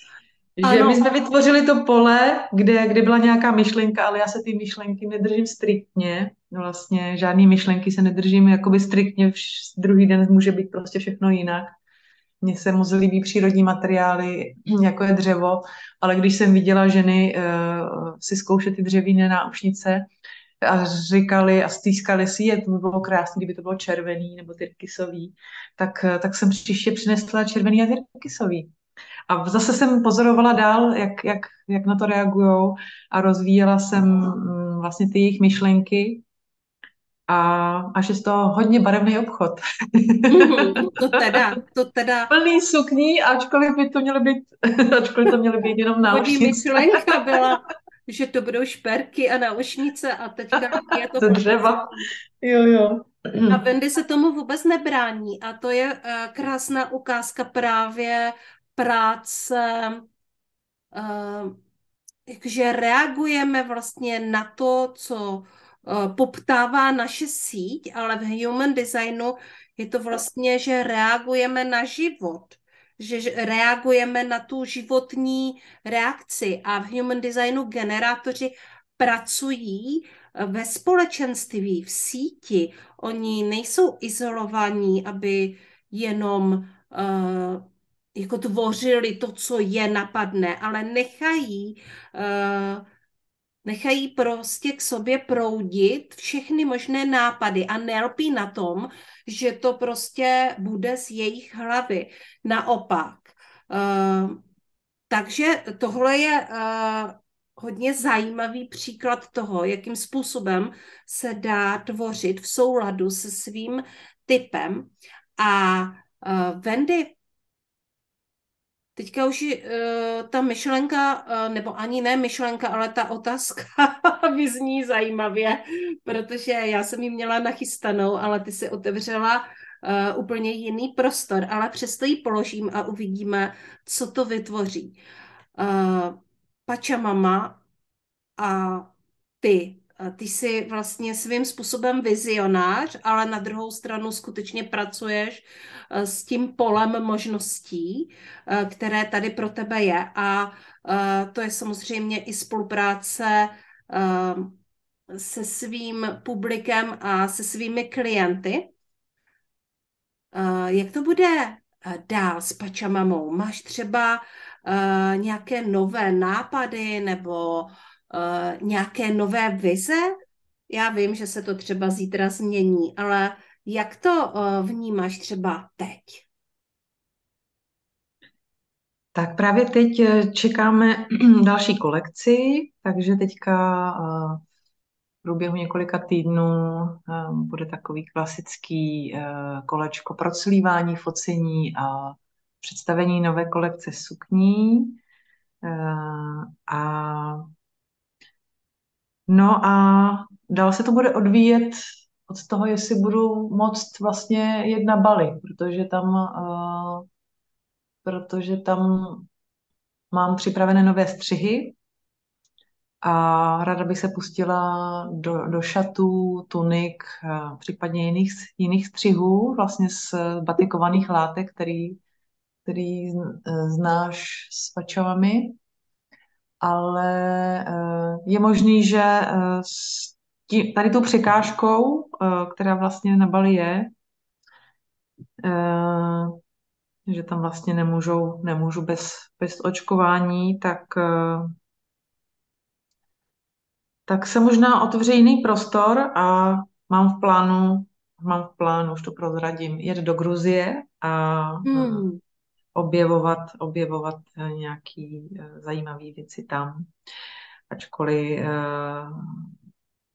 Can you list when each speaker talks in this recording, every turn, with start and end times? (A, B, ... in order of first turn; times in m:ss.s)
0:00.6-0:11.8 A
0:00.6-0:01.1 B
0:12.4-0:20.1 A
0:20.6-0:28.7 A
0:29.3-0:36.2 A
0:37.3-0:41.2 A
0:40.3-0:42.3 B
0:42.3-0:47.1 A
0:46.1-0:51.9 B
0:50.8-0:51.9 A
0:52.4-0:53.6 A
0:53.5-1:00.0 B
1:00.9-1:01.6 B
1:02.3-1:27.6 B
1:28.2-1:32.8 B
1:33.6-1:44.4 B
1:45.1-1:57.2 B
1:59.0-2:15.0 B
2:15.6-2:17.6 B
2:18.4-2:34.6 B
2:35.1-2:38.7 B
2:40.3-2:50.1 B
2:50.7-2:56.3 B
2:59.2-3:04.4 A
3:05.2-3:15.0 A
3:15.6-3:17.5 A
3:19.3-3:27.0 A
3:28.0-3:29.3 A
3:30.1-3:31.8 A
3:33.0-3:42.0 A
3:42.7-3:45.6 A
3:46.6-3:53.9 A
3:55.4-3:56.3 A
3:57.1-4:01.5 A
4:04.1-4:12.1 A
4:11.7-4:12.2 B
4:12.8-4:16.9 A
4:17.7-4:19.2 A